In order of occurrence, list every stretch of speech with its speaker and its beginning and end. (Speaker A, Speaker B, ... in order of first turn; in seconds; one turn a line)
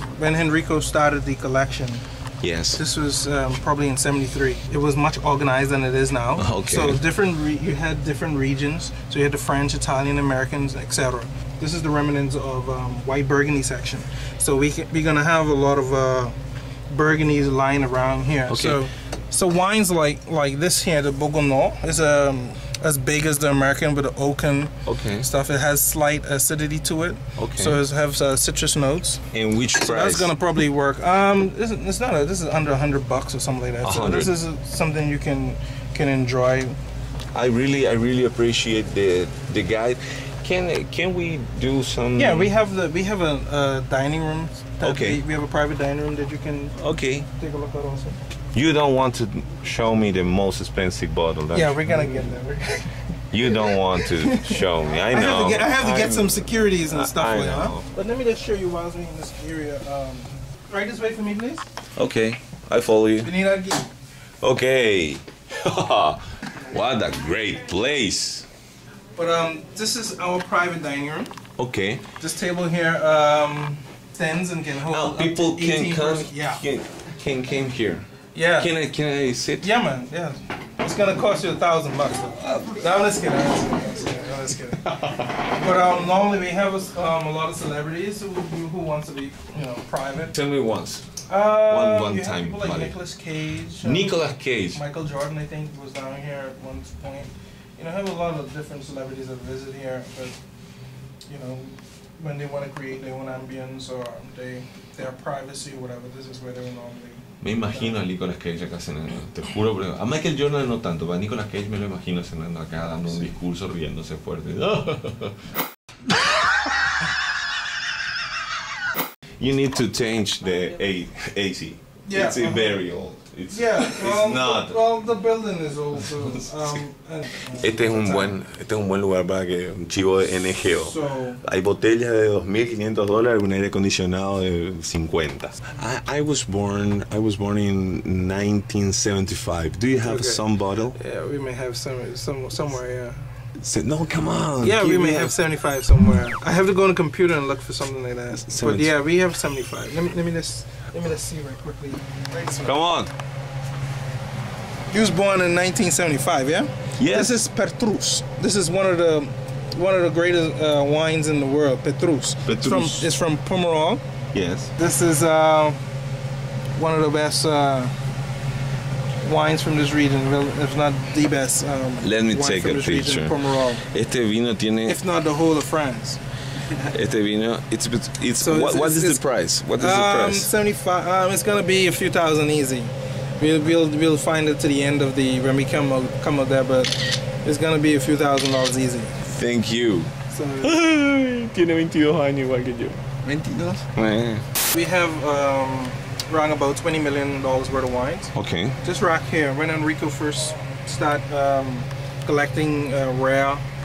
Speaker A: 0.2-2.0
Speaker B: 2.4-2.8
Speaker A: 2.8-16.4
Speaker B: 6.4-7.0
Speaker A: 16.9-29.2
Speaker B: 18.5-18.8
Speaker B: 24.9-25.3
Speaker B: 27.4-27.8
Speaker B: 29.3-30.3
Speaker A: 29.8-36.8
Speaker B: 33.8-34.3
Speaker B: 37.3-42.5
Speaker A: 42.1-46.8
Speaker B: 44.8-45.2
Speaker B: 46.8-47.3
Speaker A: 47.3-48.2
Speaker B: 48.5-52.0
Speaker A: 51.5-61.7
Speaker B: 53.3-57.8
Speaker B: 62.0-63.3
Speaker A: 63.2-63.9
Speaker B: 64.4-68.5
Speaker A: 69.2-71.3
Speaker B: 71.6-72.0
Speaker A: 72.2-76.6
Speaker B: 74.9-78.1
Speaker A: 78.3-78.7
Speaker B: 78.6-79.7
Speaker A: 79.6-84.8
Speaker B: 82.4-82.8
Speaker B: 84.9-85.4
Speaker A: 85.4-90.3
Speaker B: 90.3-91.0
Speaker A: 91.3-100.4
Speaker B: 91.7-93.0
Speaker B: 93.8-94.8
Speaker A: 101.3-108.0
Speaker B: 107.4-115.5
Speaker B: 119.4-124.8
Speaker A: 122.1-122.8
Speaker A: 123.5-128.4
Speaker B: 127.6-141.0
Speaker A: 130.8-131.4
Speaker A: 140.0-140.4
Speaker A: 140.9-143.3
Speaker B: 143.6-145.3
Speaker A: 144.6-152.8
Speaker B: 148.4-148.9
Speaker B: 152.7-153.1
Speaker A: 154.9-164.0
Speaker B: 157.0-157.4
Speaker B: 162.5-163.1
Speaker B: 164.3-164.7
Speaker A: 164.8-165.8
Speaker A: 166.8-167.9
Speaker A: 169.2-173.8
Speaker B: 172.0-175.0
Speaker A: 174.9-176.2
Speaker B: 176.9-180.5
Speaker A: 178.4-179.2
Speaker A: 179.8-189.2
Speaker B: 189.3-190.1
Speaker A: 190.3-190.7
Speaker B: 190.6-193.2
Speaker A: 193.2-193.8
Speaker B: 193.9-194.4
Speaker A: 194.7-203.6
Speaker B: 198.3-198.8